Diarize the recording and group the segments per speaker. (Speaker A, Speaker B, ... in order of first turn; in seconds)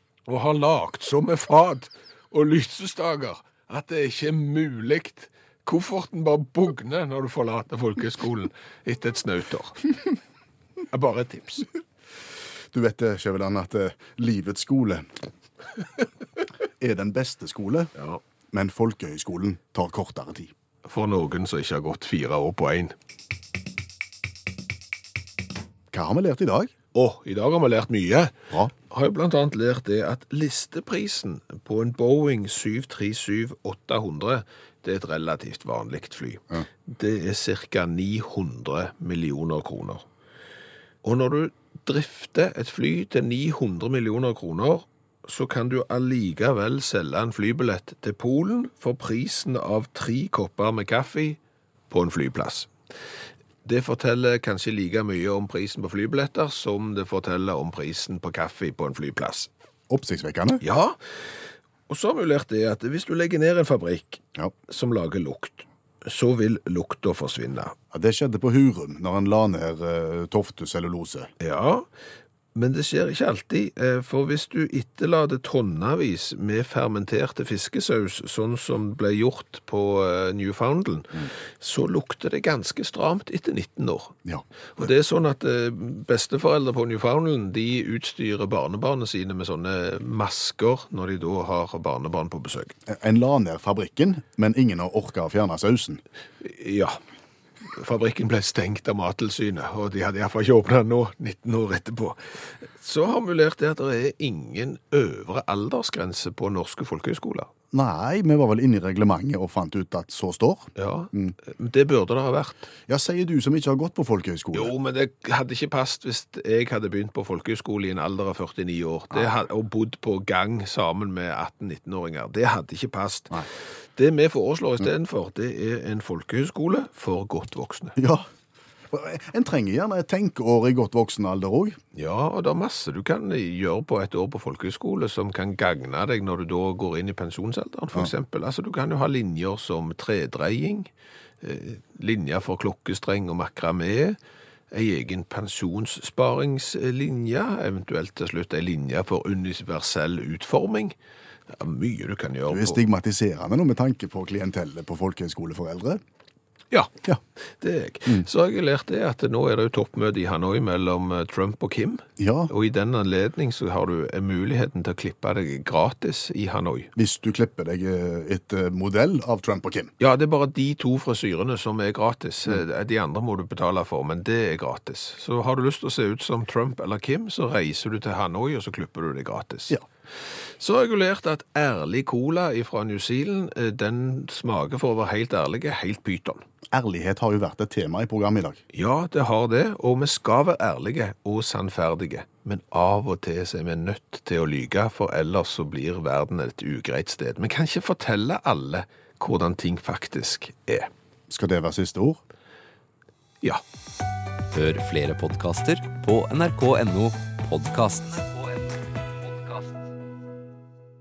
Speaker A: 0.3-9.9, 10.9-11.7, 18.0-18.2, 20.9-22.9, 26.9-28.4, 28.9-40.0, 41.0-51.4, 51.9-52.7, 53.6-59.5, 60.6-61.0, 61.9-67.8, 71.4-71.9, 72.5-84.2, 84.8-92.8, 96.4-97.0, 97.7-107.5, 110.8-112.7, 114.5-128.0, 131.9-140.9, 141.4-144.2, 144.7-151.0, 151.5-152.8, 157.6-166.9, 170.0-179.8, 180.6-186.4, 188.7-200.9
Speaker B: 12.7-15.1, 16.8-17.9, 18.5-20.5, 25.9-26.7, 59.9-60.6, 67.9-71.3, 92.9-96.0, 107.7-111.3, 112.9-114.7, 128.0-128.3, 128.9-131.8, 152.5-156.0, 162.2-162.5, 167.0-169.9, 186.7-188.6, 201.3-202.2
Speaker C: 204.5-209.9